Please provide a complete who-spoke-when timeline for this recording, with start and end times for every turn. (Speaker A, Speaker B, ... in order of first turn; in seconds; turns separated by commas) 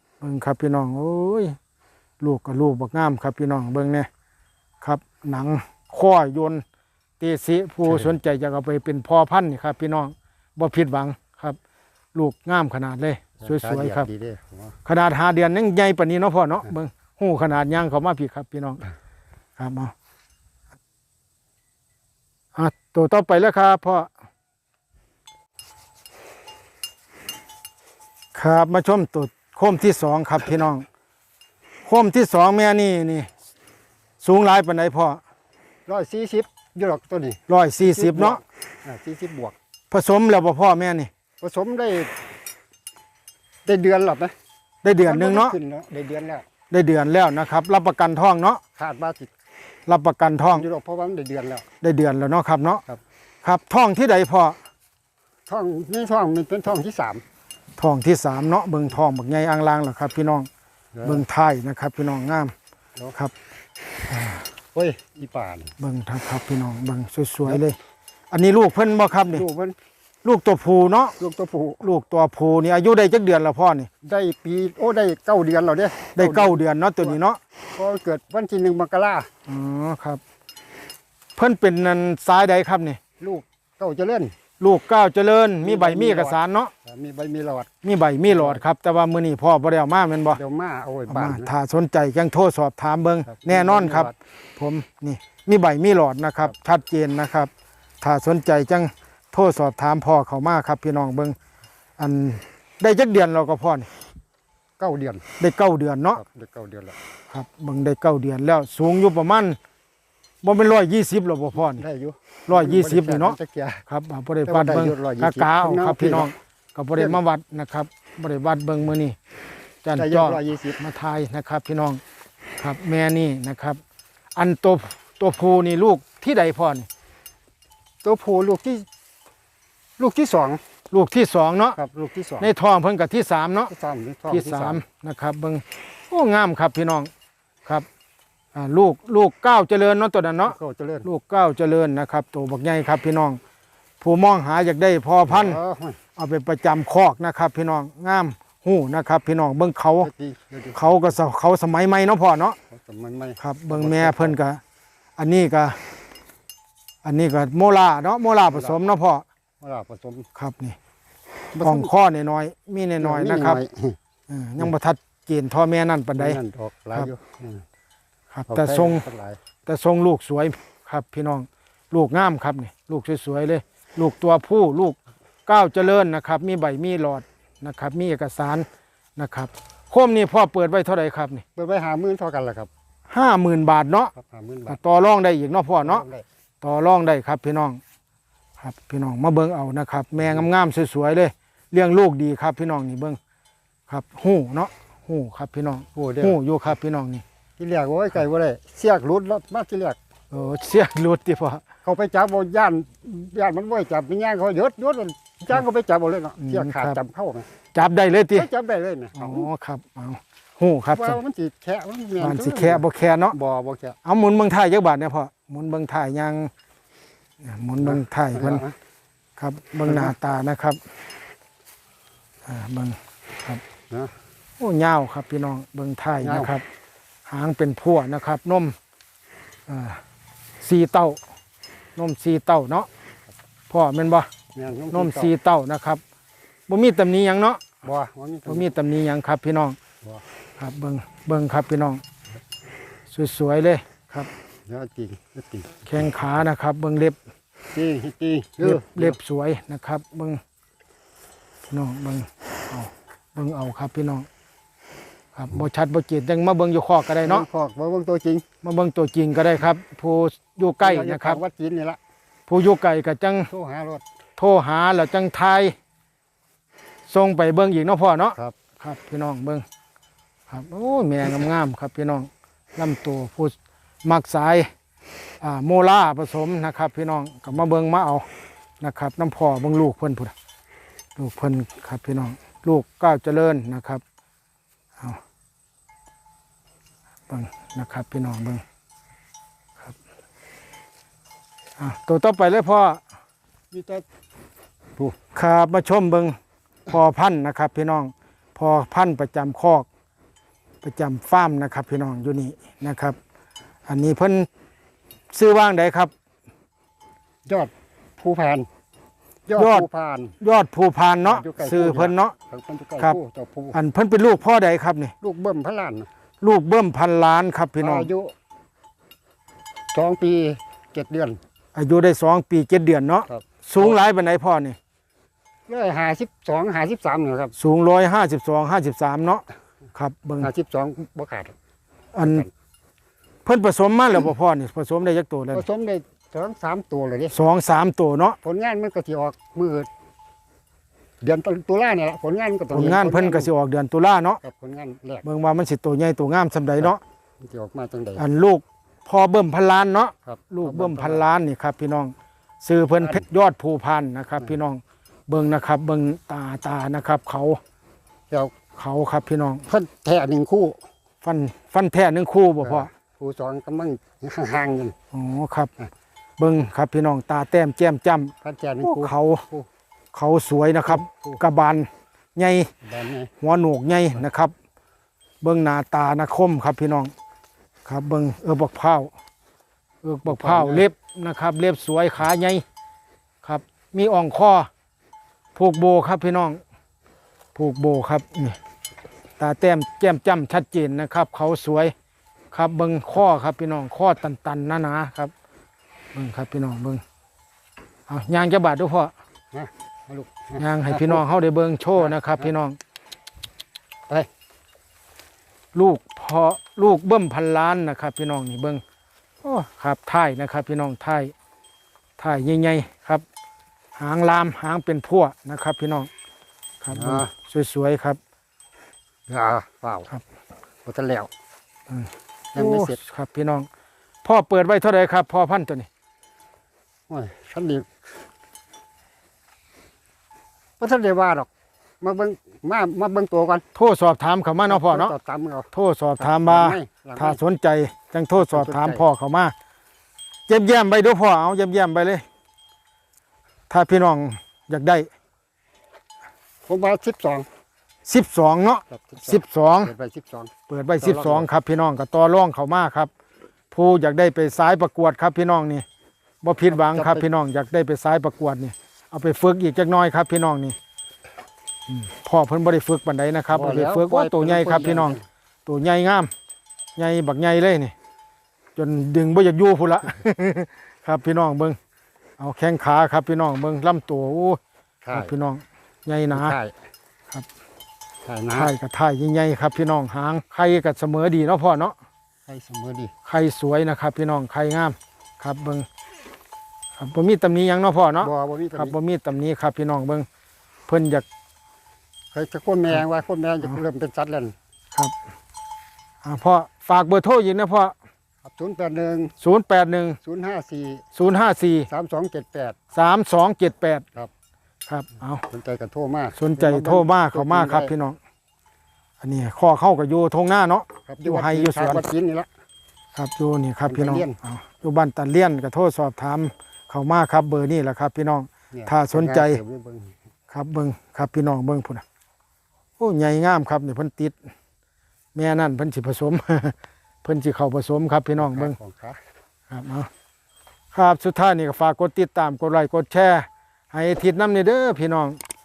Speaker A: 0.2-1.6, Speaker A: 2.2-4.1, Speaker A: 4.8-6.6, Speaker A: 7.2-11.6, Speaker B: 7.8-8.1, Speaker A: 12.1-14.1, Speaker B: 13.4-14.8, Speaker A: 14.8-18.8, Speaker A: 19.6-19.9, Speaker A: 22.6-24.1, Speaker A: 28.3-30.9, Speaker A: 31.9-33.3, Speaker A: 34.2-35.2, Speaker B: 35.9-39.5, Speaker A: 37.5-38.4, Speaker A: 39.9-41.1, Speaker B: 41.4-42.1, Speaker B: 43.6-44.3, Speaker A: 44.8-45.5, Speaker B: 45.0-46.5, Speaker A: 46.7-48.6, Speaker B: 48.8-49.3, Speaker A: 49.9-50.6, Speaker B: 50.5-51.6, Speaker A: 51.8-52.8, Speaker A: 53.4-54.6, Speaker B: 55.5-57.2, Speaker A: 57.8-60.5, Speaker B: 60.9-61.2, Speaker A: 61.0-62.5, Speaker A: 64.1-64.4, Speaker B: 64.7-65.7, Speaker A: 65.8-67.8, Speaker A: 68.3-69.4, Speaker B: 69.2-69.8, Speaker A: 70.2-71.1, Speaker B: 71.2-71.8, Speaker A: 71.8-73.9, Speaker B: 74.0-77.2, Speaker A: 76.2-77.4, Speaker B: 77.8-79.3, Speaker A: 79.5-80.2, Speaker A: 81.3-83.0, Speaker B: 83.2-84.3, Speaker A: 84.6-86.7, Speaker B: 85.6-87.7, Speaker A: 87.8-90.4, Speaker B: 88.2-88.6, Speaker B: 90.3-91.5, Speaker A: 91.1-101.3, Speaker B: 93.3-94.1, Speaker A: 102.0-103.9, Speaker B: 104.8-105.2, Speaker A: 105.4-106.2, Speaker B: 106.2-107.0, Speaker A: 107.3-109.6, Speaker A: 110.4-111.8, Speaker B: 111.6-113.8, Speaker A: 112.5-113.4, Speaker A: 113.9-119.2, Speaker B: 114.4-116.3, Speaker A: 119.8-122.0, Speaker B: 120.0-120.8, Speaker A: 122.6-123.8, Speaker A: 124.3-126.9, Speaker B: 128.0-128.9, Speaker B: 130.0-130.6, Speaker A: 130.9-131.8, Speaker B: 131.7-132.5, Speaker A: 132.4-133.7, Speaker B: 133.7-134.8, Speaker A: 134.3-137.1, Speaker A: 138.5-143.4, Speaker B: 140.5-141.1, Speaker A: 144.0-145.6, Speaker B: 145.3-146.0, Speaker A: 146.2-150.1, Speaker B: 150.0-150.9, Speaker A: 150.7-152.6, Speaker B: 152.7-154.4, Speaker A: 153.4-154.6, Speaker A: 155.2-155.8, Speaker A: 157.0-159.2, Speaker B: 158.5-158.8, Speaker B: 159.6-160.3, Speaker A: 160.3-160.8, Speaker B: 161.5-161.9, Speaker A: 161.6-163.6, Speaker B: 163.0-164.0, Speaker A: 164.3-166.4, Speaker B: 166.2-167.6, Speaker A: 168.3-169.0, Speaker B: 168.5-169.4, Speaker A: 169.7-181.4, Speaker B: 181.5-182.7, Speaker A: 183.1-184.1, Speaker B: 184.1-184.8, Speaker A: 184.7-186.0, Speaker B: 185.8-186.2, Speaker A: 186.6-187.8, Speaker A: 188.6-193.2, Speaker B: 190.2-190.5, Speaker A: 193.9-197.2, Speaker B: 195.9-196.4, Speaker B: 197.6-200.0, Speaker A: 200.3-201.6, Speaker B: 201.8-207.5, Speaker A: 206.4-207.0, Speaker A: 207.7-208.5, Speaker B: 208.3-209.5, Speaker A: 209.1-211.2, Speaker B: 210.9-214.0, Speaker A: 212.2-213.3, Speaker A: 214.0-216.5, Speaker A: 217.4-218.6, Speaker B: 217.8-218.7, Speaker A: 219.4-220.8, Speaker B: 219.8-220.1, Speaker A: 222.4-223.6, Speaker A: 224.6-226.6, Speaker B: 226.2-226.5, Speaker A: 227.3-228.8, Speaker A: 229.7-230.0, Speaker A: 230.6-231.2, Speaker A: 231.9-232.9, Speaker A: 233.7-234.3, Speaker B: 234.5-235.3, Speaker A: 234.9-236.0, Speaker A: 236.7-237.6, Speaker B: 237.8-238.8, Speaker A: 238.5-239.8, Speaker A: 240.6-242.0, Speaker A: 243.1-244.3, Speaker B: 244.7-245.8, Speaker A: 245.8-247.2, Speaker B: 247.7-249.2, Speaker A: 248.6-250.4, Speaker A: 251.7-254.3, Speaker A: 255.3-257.4, Speaker B: 257.2-258.4, Speaker A: 258.6-261.4, Speaker B: 260.8-262.0, Speaker A: 262.5-263.5, Speaker B: 263.5-264.0, Speaker A: 264.4-265.7, Speaker A: 267.1-269.6, Speaker A: 270.5-274.7, Speaker A: 275.4-278.2, Speaker A: 278.8-280.3, Speaker A: 281.1-284.0, Speaker A: 287.3-288.6, Speaker A: 291.8-293.0, Speaker B: 293.7-294.0, Speaker A: 295.3-296.4, Speaker A: 296.9-299.9, Speaker A: 300.8-303.2, Speaker A: 303.9-304.5, Speaker A: 305.3-306.1, Speaker B: 307.4-308.7, Speaker B: 309.5-310.3, Speaker A: 309.6-309.9, Speaker A: 310.4-312.3, Speaker B: 311.2-313.8, Speaker A: 313.7-315.1, Speaker B: 315.2-316.1, Speaker A: 316.4-318.1, Speaker B: 317.8-318.3, Speaker B: 319.9-321.4, Speaker A: 321.7-324.8, Speaker B: 323.3-324.0, Speaker B: 325.7-327.5, Speaker A: 327.6-329.4, Speaker A: 329.9-330.5, Speaker B: 330.4-331.5, Speaker A: 332.1-332.4, Speaker B: 332.2-332.5, Speaker A: 333.4-335.6, Speaker B: 335.5-337.3, Speaker A: 337.3-338.4, Speaker B: 338.4-339.9, Speaker B: 341.2-343.5, Speaker A: 342.7-344.4, Speaker B: 344.4-345.3, Speaker A: 345.2-347.0, Speaker B: 346.8-348.2, Speaker A: 348.2-357.6, Speaker B: 350.2-351.3, Speaker A: 358.8-359.6, Speaker B: 359.7-360.8, Speaker A: 361.2-362.9, Speaker B: 362.6-364.9, Speaker A: 365.1-365.7, Speaker A: 366.4-369.4, Speaker B: 368.4-369.7, Speaker A: 370.1-372.7, Speaker B: 370.9-371.4, Speaker B: 372.8-373.3, Speaker A: 373.4-374.5, Speaker A: 375.4-377.1, Speaker A: 377.9-379.1, Speaker A: 380.0-382.6, Speaker B: 380.2-380.9, Speaker A: 383.4-384.7, Speaker A: 385.5-386.6, Speaker A: 387.5-388.6, Speaker A: 389.4-391.9, Speaker A: 392.5-395.3, Speaker A: 396.1-397.0, Speaker A: 398.1-399.1, Speaker B: 399.5-401.2, Speaker A: 400.6-402.8, Speaker B: 402.0-402.5, Speaker A: 405.7-408.8, Speaker A: 409.4-411.3, Speaker A: 412.2-413.2, Speaker A: 413.9-416.1, Speaker A: 416.8-418.2, Speaker B: 416.9-417.3, Speaker B: 419.3-420.1, Speaker B: 420.8-421.3, Speaker A: 421.9-423.7, Speaker B: 422.5-423.0, Speaker A: 424.2-425.9, Speaker B: 427.1-427.9, Speaker B: 430.8-431.5, Speaker B: 432.0-433.6, Speaker A: 433.7-435.1, Speaker B: 434.7-435.7, Speaker A: 435.7-439.5, Speaker B: 436.2-437.4, Speaker B: 438.4-439.0, Speaker A: 440.5-442.2, Speaker A: 443.7-445.1, Speaker B: 446.7-447.4, Speaker A: 448.1-449.9, Speaker B: 448.9-451.5, Speaker A: 450.7-453.1, Speaker A: 453.7-455.8, Speaker A: 456.4-460.8, Speaker B: 456.7-457.2, Speaker A: 461.9-466.3, Speaker B: 463.5-465.2, Speaker A: 467.0-467.9, Speaker A: 468.8-471.8, Speaker A: 472.4-474.6, Speaker B: 475.0-475.3, Speaker A: 475.1-476.6, Speaker B: 476.3-476.7, Speaker B: 478.2-478.7, Speaker A: 478.5-481.9, Speaker B: 482.5-483.1, Speaker A: 483.2-485.9, Speaker A: 487.0-490.2, Speaker B: 488.2-488.9, Speaker A: 490.9-491.2, Speaker B: 492.3-494.5, Speaker A: 496.2-497.9, Speaker B: 498.4-499.3, Speaker A: 499.4-500.2, Speaker B: 500.2-501.0, Speaker A: 501.1-501.9, Speaker B: 501.9-502.8, Speaker A: 502.9-504.0, Speaker A: 504.9-505.4, Speaker B: 505.5-507.9, Speaker A: 506.3-508.2, Speaker A: 509.2-512.1, Speaker B: 511.1-512.5, Speaker A: 513.1-519.6, Speaker B: 513.9-514.4, Speaker B: 518.7-520.1, Speaker A: 520.5-522.0, Speaker A: 523.0-524.4, Speaker A: 525.3-528.8, Speaker B: 528.4-529.2, Speaker A: 529.7-530.1, Speaker A: 530.9-535.4